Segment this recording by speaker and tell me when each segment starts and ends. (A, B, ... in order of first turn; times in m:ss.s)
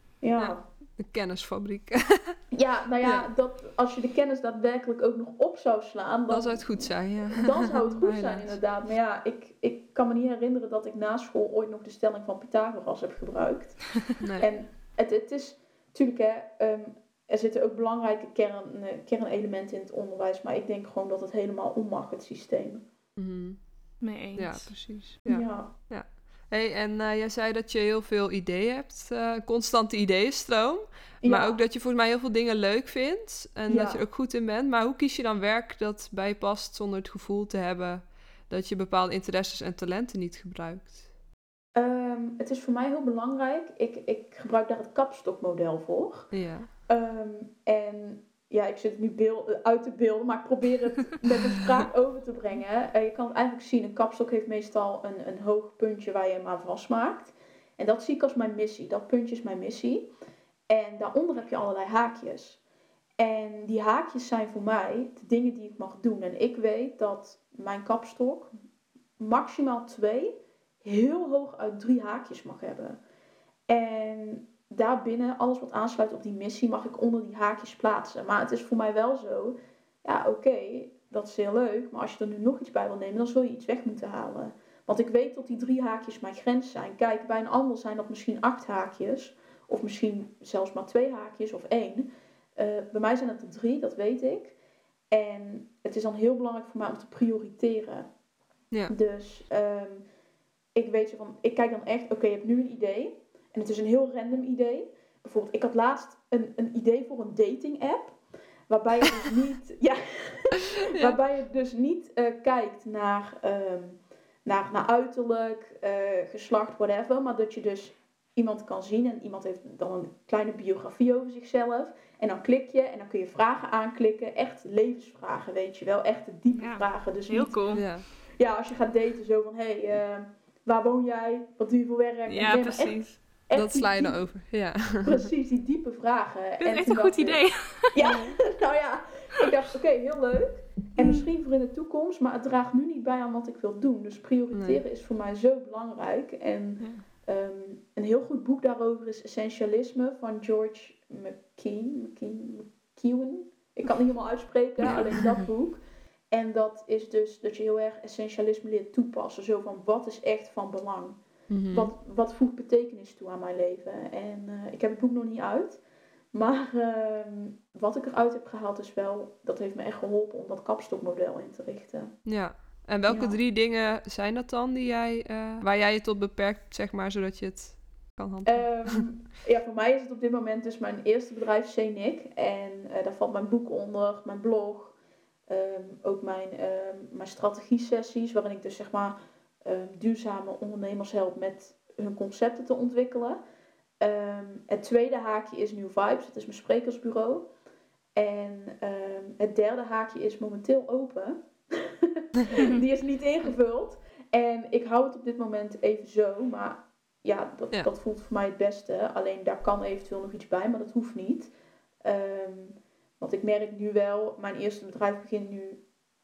0:00.2-0:00.6 A
0:00.4-0:02.4 B
0:02.5-0:22.8 A
0:03.0-0:03.3 B
0:06.3-0:08.6 B
0:14.2-0:14.5 B
0:23.2-0:23.6 B
0:24.0-0:25.0 C
0:24.4-0:41.0 B
0:25.2-0:25.7 A
0:31.2-0:31.6 A
0:33.7-0:34.0 A
0:41.7-0:46.3 A
0:46.3-0:46.7 B
0:46.9-1:00.1 A
1:00.7-1:02.6 A
1:03.2-1:08.5 A
1:09.2-1:13.0 A
1:13.7-1:34.5 A
1:35.1-1:38.1 A
1:38.9-1:40.0 A
1:40.7-1:48.2 A
1:48.7-2:14.3 A
1:50.9-1:51.2 B
2:06.6-2:07.8 C
2:07.7-2:08.0 B
2:12.3-2:13.2 C
2:13.5-2:15.3 B
2:15.0-2:35.8 A
2:16.6-2:18.4 C
2:21.0-2:21.3 C
2:24.5-2:24.8 B
2:34.8-2:35.4 B
2:36.3-2:45.8 A
2:41.5-2:41.9 B
2:46.3-2:52.1 A
2:52.2-2:59.0 B
2:53.0-2:53.4 A
2:58.4-3:04.9 A
3:05.5-3:13.4 A
3:14.0-3:17.4 A
3:18.2-3:31.5 A
3:32.0-3:35.8 A